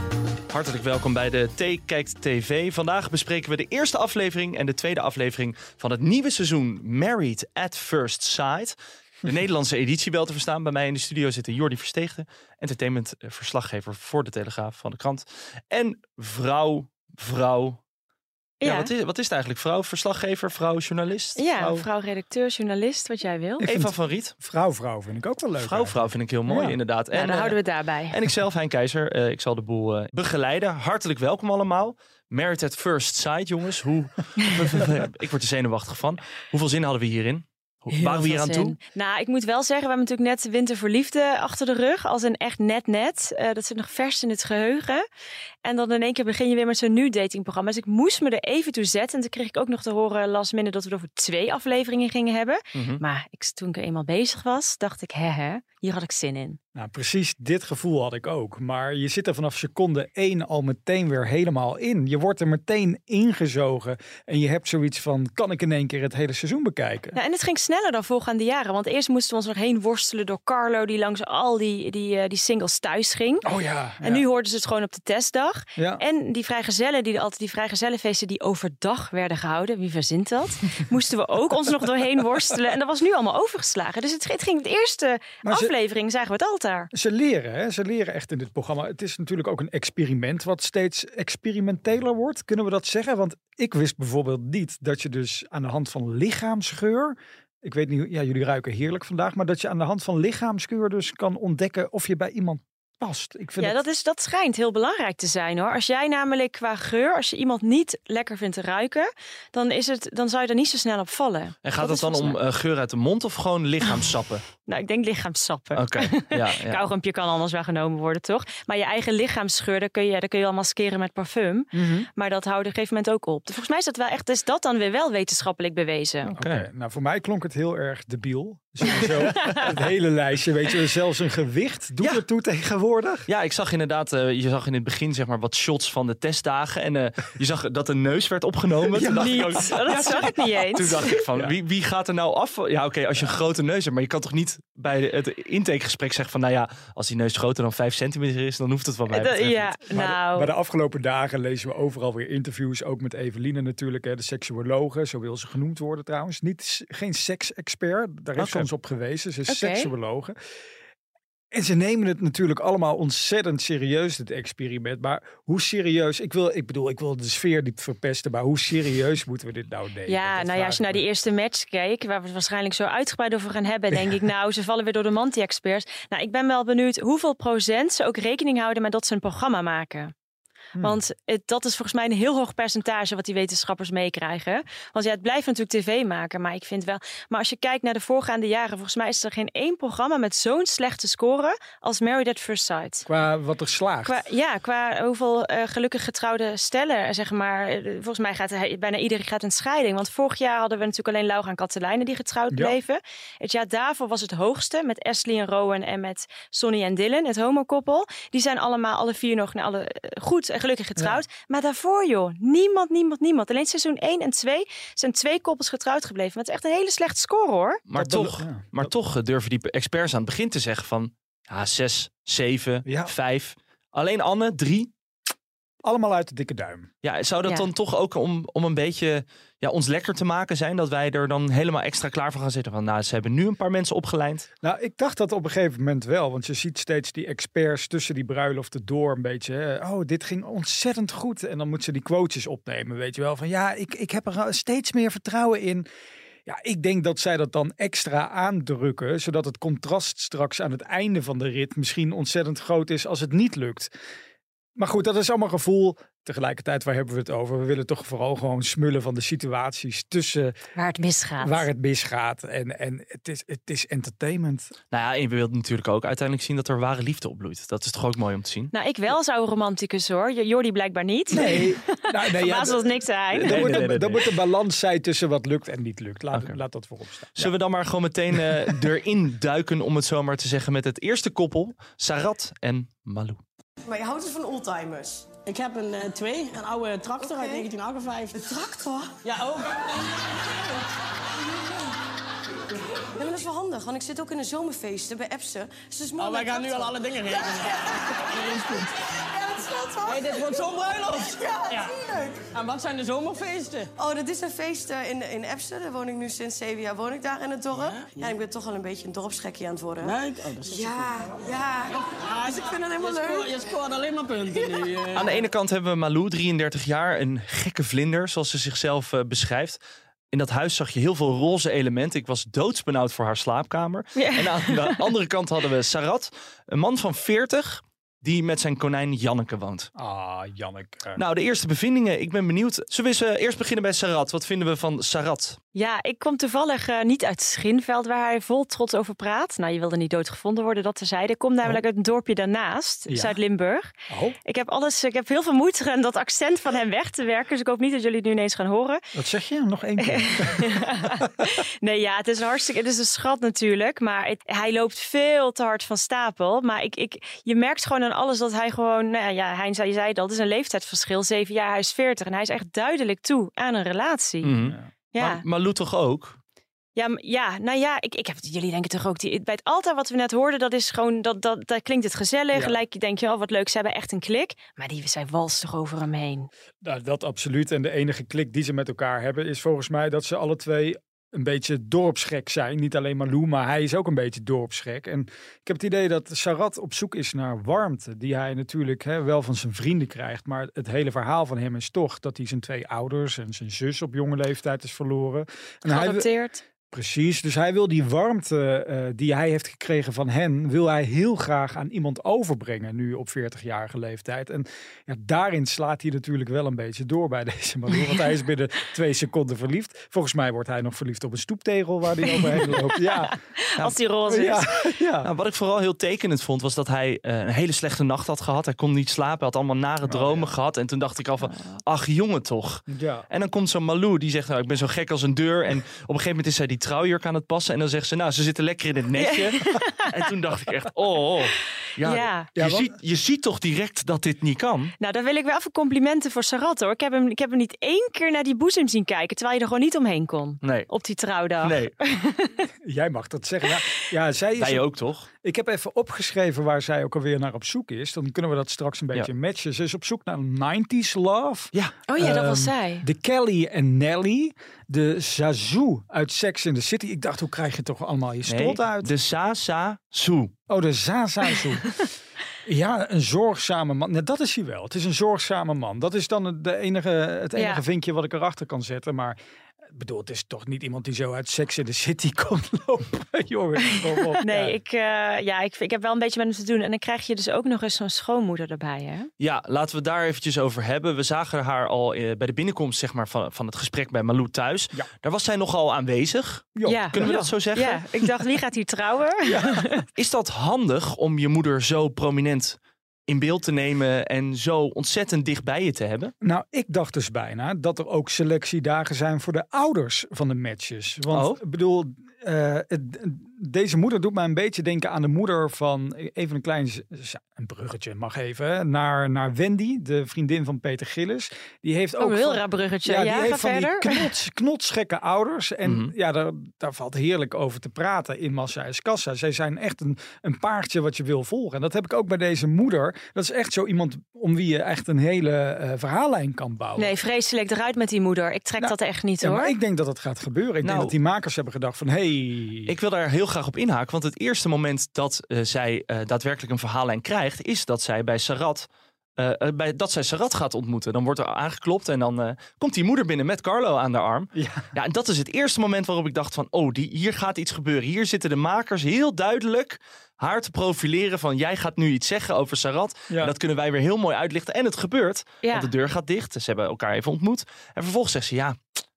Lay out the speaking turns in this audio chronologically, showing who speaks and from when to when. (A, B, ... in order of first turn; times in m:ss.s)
0:00.5-0:17.8 A
0:18.6-0:18.9 B
0:18.6-0:21.8 A
0:21.4-0:23.6 B
0:23.6-0:26.8 C
0:23.6-0:24.3 A
0:25.6-0:38.8 A
0:27.1-0:28.1 B
0:37.9-0:45.0 B
0:45.6-0:56.6 B
0:52.7-0:53.0 A
0:56.7-1:07.2 C
1:07.1-1:13.5 B
1:13.4-1:14.2 C
1:14.0-1:26.9 B
1:15.8-1:16.0 C
1:25.4-1:25.7 C
1:26.9-1:43.8 C
1:43.6-1:52.4 B
1:51.6-1:54.4 A
1:54.6-2:06.3 B
1:55.7-1:56.8 A
2:01.7-2:02.1 C
2:06.2-2:06.6 A
2:06.4-2:13.3 C
2:08.9-2:09.6 B
2:13.3-2:30.0 A
2:18.9-2:20.2 C
2:19.0-2:21.1 B
2:29.1-2:30.5 B
2:29.9-2:40.4 C
2:38.4-2:38.7 A
2:39.5-2:39.9 B
2:41.5-2:51.0 C
2:50.1-3:00.1 B
3:00.7-3:01.0 C
3:00.8-3:13.0 B
3:13.0-3:14.2 C
3:14.0-3:37.8 B
3:31.0-3:31.2 C
3:37.9-3:44.9 A
3:37.9-3:38.9 C
3:42.8-3:43.1 C
3:45.8-3:46.9 C
3:47.0-3:54.5 A
3:54.6-4:05.8 C
4:06.4-4:13.9 C
4:14.8-4:20.6 C
4:20.7-4:21.7 B
4:21.4-4:24.7 C
4:24.9-4:28.7 A
4:28.7-4:33.8 B
4:31.3-4:37.5 C
4:33.3-4:34.3 A
4:36.3-4:36.6 A
4:37.4-4:43.4 A
4:38.3-4:38.9 C
4:43.8-4:45.3 D
4:45.4-4:48.7 E
4:47.2-4:47.7 D
4:48.3-4:49.1 D
4:49.2-4:50.2 E
4:53.1-5:02.3 D
4:56.2-4:59.0 E
5:00.0-5:03.9 E
5:04.0-5:13.6 D
5:07.8-5:08.3 E
5:10.0-5:11.2 E
5:12.2-5:15.4 E
5:14.5-5:14.8 D
5:15.1-5:19.8 A
5:20.3-5:29.9 A
5:24.2-5:25.0 B
5:30.0-5:31.2 C
5:31.1-5:35.6 A
5:35.7-5:43.9 B
5:43.1-5:43.4 C
5:44.1-5:44.4 C
5:44.4-5:49.0 B
5:49.1-5:51.3 C
5:50.0-6:04.5 B
6:04.4-6:06.4 A
6:04.6-6:04.9 C
6:05.1-6:05.4 B
6:07.0-6:16.5 B
6:12.5-6:12.8 C
6:16.8-6:36.3 C
6:35.8-6:36.6 B
6:36.9-6:53.3 C
6:52.2-6:54.7 B
6:54.3-6:55.3 C
6:55.2-7:14.9 A
7:00.0-7:00.5 C
7:01.5-7:01.8 B
7:02.9-7:03.3 C
7:09.2-7:10.1 B
7:12.0-7:12.5 B
7:12.5-7:12.9 C
7:15.0-7:22.6 B
7:20.6-7:20.9 A
7:21.6-7:21.9 A
7:22.8-7:39.1 C
7:24.6-7:25.3 A
7:32.1-7:33.0 B
7:38.5-7:40.5 A
7:40.7-7:42.1 C
7:42.6-7:49.4 C
7:47.6-7:47.8 B
7:49.9-7:54.7 C
7:54.4-7:59.3 B
7:59.4-8:08.0 A
8:06.8-8:07.5 C
8:06.8-8:10.0 B
8:09.4-8:10.0 C
8:10.2-8:16.3 A
8:16.4-8:47.1 C
8:21.3-8:21.6 A
8:32.2-8:34.2 B
8:35.8-8:36.1 A
8:47.0-8:49.7 B
8:48.8-8:52.9 C
8:50.8-8:51.1 A
8:52.9-9:18.8 A
9:04.6-9:04.9 C
9:15.6-9:15.9 B